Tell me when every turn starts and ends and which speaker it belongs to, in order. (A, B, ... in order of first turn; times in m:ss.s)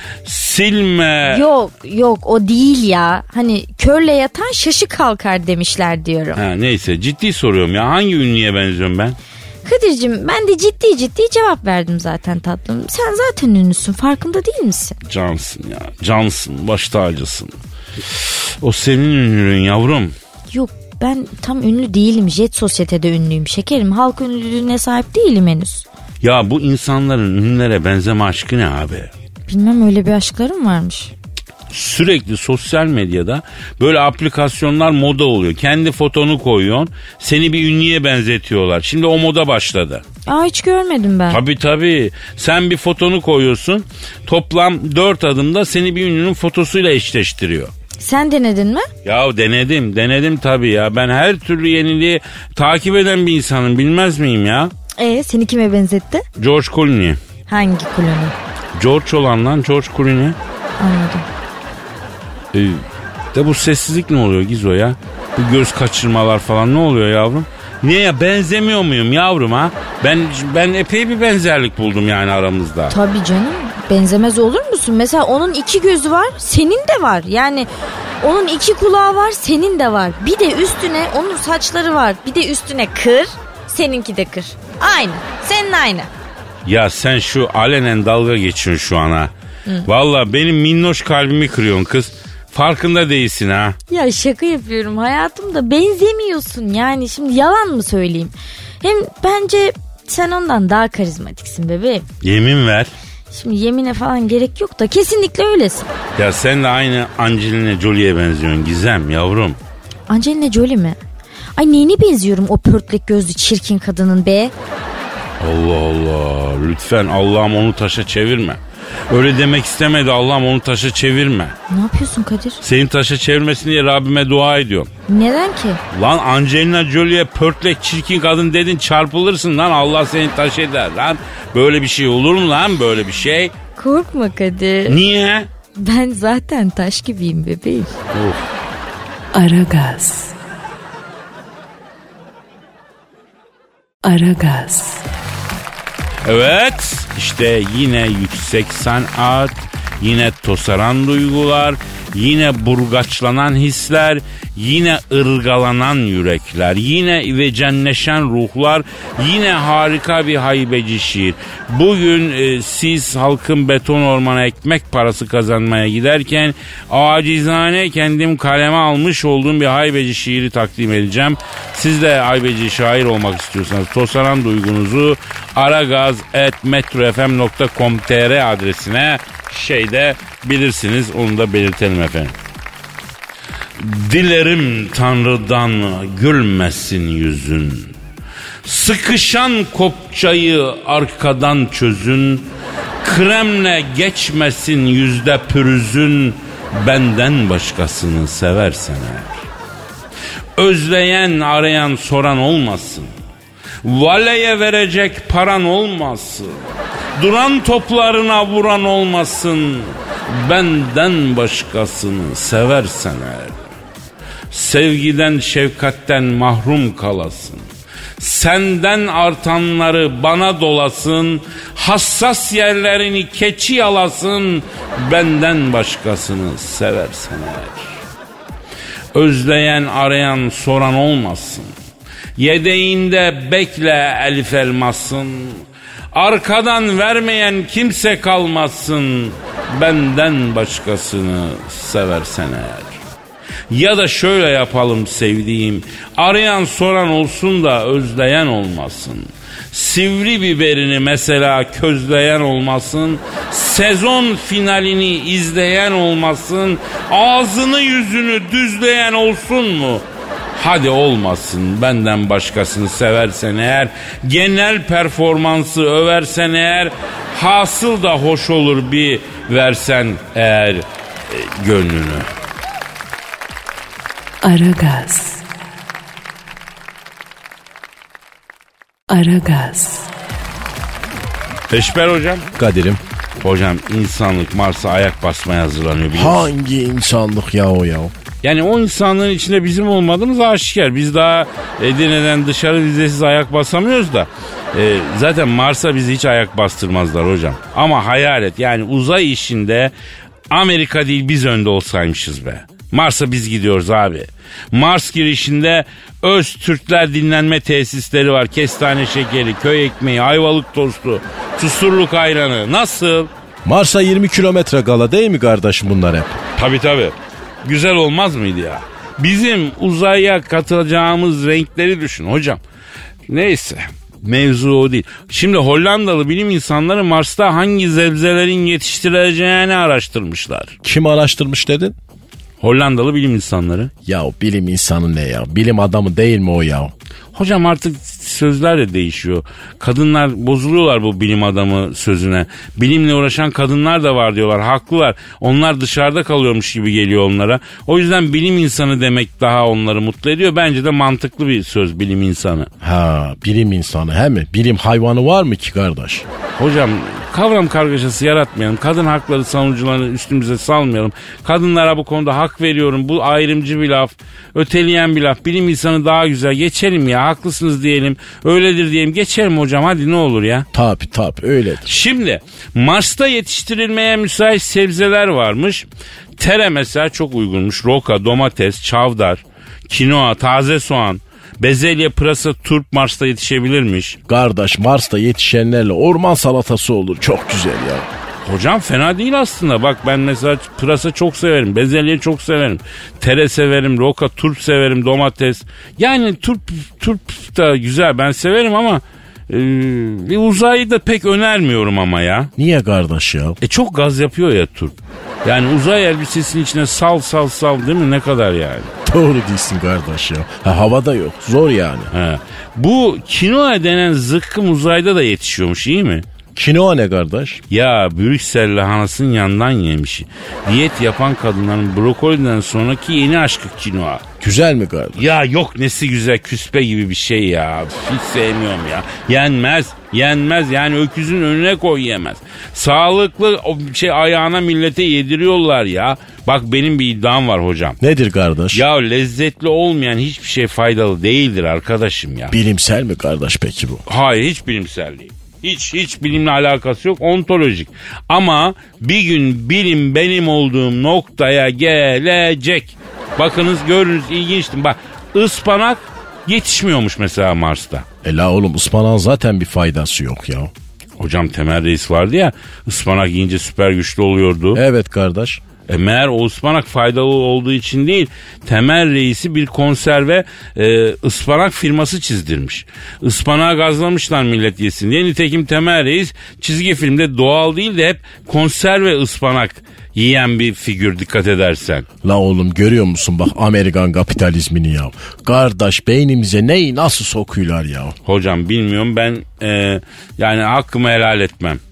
0:00.2-0:01.4 A
0:01.2-0:06.4 B
0:06.4-0:09.2 A
0:09.6-0:15.0 B
0:15.0-0:17.5 A
0:18.1-0:20.1 A
0:20.5-0:25.8 B
0:26.2-0:29.1 A
0:29.5-0:31.1 B
0:31.7-0:40.0 A
0:40.3-0:41.4 B
0:41.3-0:47.7 A
0:48.0-0:48.9 B
0:49.0-0:54.7 A
0:55.0-0:56.2 B
0:56.4-0:57.2 A
0:57.5-0:58.4 B
0:58.7-1:00.4 A
1:00.8-1:01.2 B
1:02.5-1:12.9 A
1:12.9-1:17.7 B
1:18.2-1:26.1 B
1:26.6-1:29.3 A
1:29.8-1:33.8 A
1:33.9-1:42.1 B
1:42.2-1:42.9 A
1:43.3-1:45.9 B
1:46.2-1:49.6 A
1:50.1-1:51.0 B
1:51.6-1:54.5 B
1:55.4-2:01.6 A
2:01.7-2:02.6 B
2:02.6-2:04.9 A
2:05.1-2:05.8 B
2:05.9-2:13.5 A
2:13.8-2:15.0 B
2:14.9-2:15.5 A
2:15.8-2:17.9 B
2:18.1-2:18.5 A
2:19.3-2:20.3 C
2:24.0-2:25.0 C
2:26.2-3:02.3 A
3:03.8-3:07.9 A
3:08.6-3:19.4 A
3:20.6-3:23.1 A
3:23.8-3:26.6 A
3:27.1-3:33.6 A
3:34.5-3:37.6 A
3:38.2-3:47.9 A
3:49.1-3:51.7 A
3:52.4-4:03.0 A
4:03.7-4:20.0 A
4:20.5-4:32.3 A
4:34.4-4:35.4 C
4:39.1-4:40.1 C
4:41.7-4:42.5 A
4:42.6-4:43.0 D
4:43.4-4:46.5 A
4:46.1-4:48.1 D
4:48.4-4:59.9 A
5:00.5-5:13.3 A
5:13.6-5:16.4 D
5:16.6-5:22.6 A
5:23.3-5:30.7 A
5:30.8-5:32.0 D
5:32.6-5:33.9 A
5:34.0-5:36.9 D
5:37.3-5:52.7 A
5:52.8-5:56.2 D
5:56.6-6:10.7 A
6:10.7-6:11.9 D
6:11.9-6:15.8 A
6:16.4-6:24.2 A
6:24.3-6:28.1 D
6:28.4-6:42.5 A
6:42.6-6:43.6 D
6:43.6-6:48.9 A
6:49.0-6:52.1 D
6:52.1-6:56.2 A
6:56.5-6:57.6 D
6:57.7-7:04.2 A
7:04.4-7:05.3 D
7:05.2-7:18.0 A
7:18.0-7:18.8 D
7:18.7-7:22.5 A
7:22.5-7:24.0 D
7:24.1-7:38.0 A
7:38.2-7:40.7 D
7:41.2-7:44.8 A
7:44.7-7:45.6 D
7:45.9-8:02.0 A
8:02.2-8:08.2 D
8:08.2-8:11.8 A